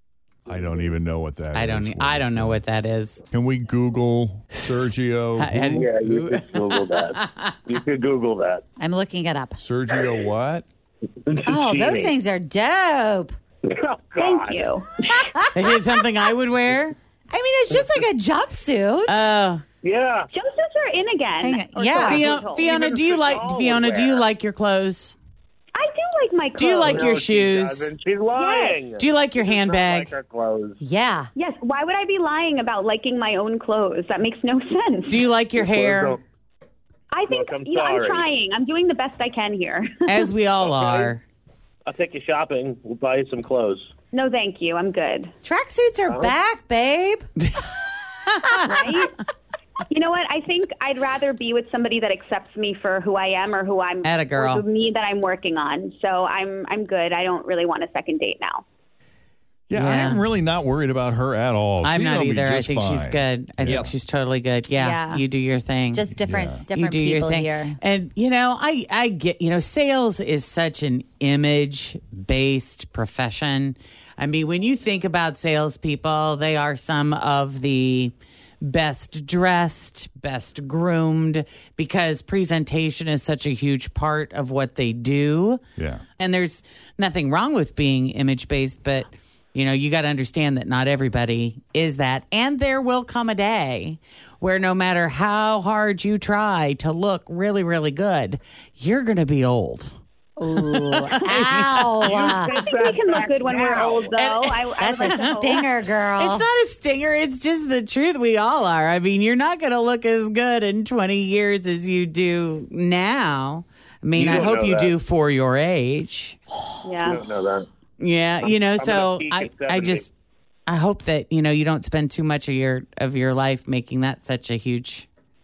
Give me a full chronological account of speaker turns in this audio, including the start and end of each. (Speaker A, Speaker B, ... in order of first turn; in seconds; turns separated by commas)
Speaker A: 0.5-2.6, Speaker B: 1.5-3.2, Speaker A: 3.3-5.9, Speaker B: 5.4-6.7, Speaker C: 5.8-8.6, Speaker D: 8.8-9.6, Speaker A: 9.6-10.7, Speaker C: 11.3-12.2, Speaker D: 11.4-13.3, Speaker C: 13.7-14.7, Speaker E: 14.2-15.0, Speaker B: 15.5-16.9, Speaker D: 17.3-19.3, Speaker B: 19.1-19.6, Speaker C: 19.8-20.3, Speaker E: 20.3-22.7, Speaker D: 21.4-22.2, Speaker B: 22.0-25.2, Speaker C: 22.1-24.3, Speaker E: 25.8-27.1, Speaker B: 26.6-27.9, Speaker C: 26.9-30.8, Speaker E: 28.3-28.8, Speaker B: 29.0-30.1, Speaker D: 30.8-31.3, Speaker E: 31.4-35.2, Speaker B: 35.1-36.2, Speaker C: 35.6-36.2, Speaker E: 37.1-40.3, Speaker C: 37.3-38.3, Speaker B: 40.1-41.2, Speaker C: 40.6-41.1, Speaker C: 41.9-43.9, Speaker E: 44.1-45.3, Speaker D: 45.4-47.3, Speaker C: 46.1-46.4, Speaker E: 48.6-49.1, Speaker E: 49.9-58.6, Speaker B: 54.0-54.6, Speaker A: 59.7-63.9, Speaker B: 59.7-60.2, Speaker B: 61.8-66.1, Speaker D: 64.8-65.2, Speaker D: 65.9-67.8, Speaker A: 66.1-66.7, Speaker B: 66.7-85.6, Speaker A: 85.8-86.0, Speaker B: 86.2-100.0, Speaker D: 100.4-102.6, Speaker B: 100.5-102.2, Speaker C: 102.0-104.1, Speaker E: 102.5-105.7, Speaker B: 103.7-116.4, Speaker D: 104.8-106.5, Speaker C: 114.2-115.0, Speaker E: 116.8-117.2, Speaker C: 117.0-117.7, Speaker B: 118.0-120.1, Speaker C: 118.4-120.1, Speaker B: 120.7-125.1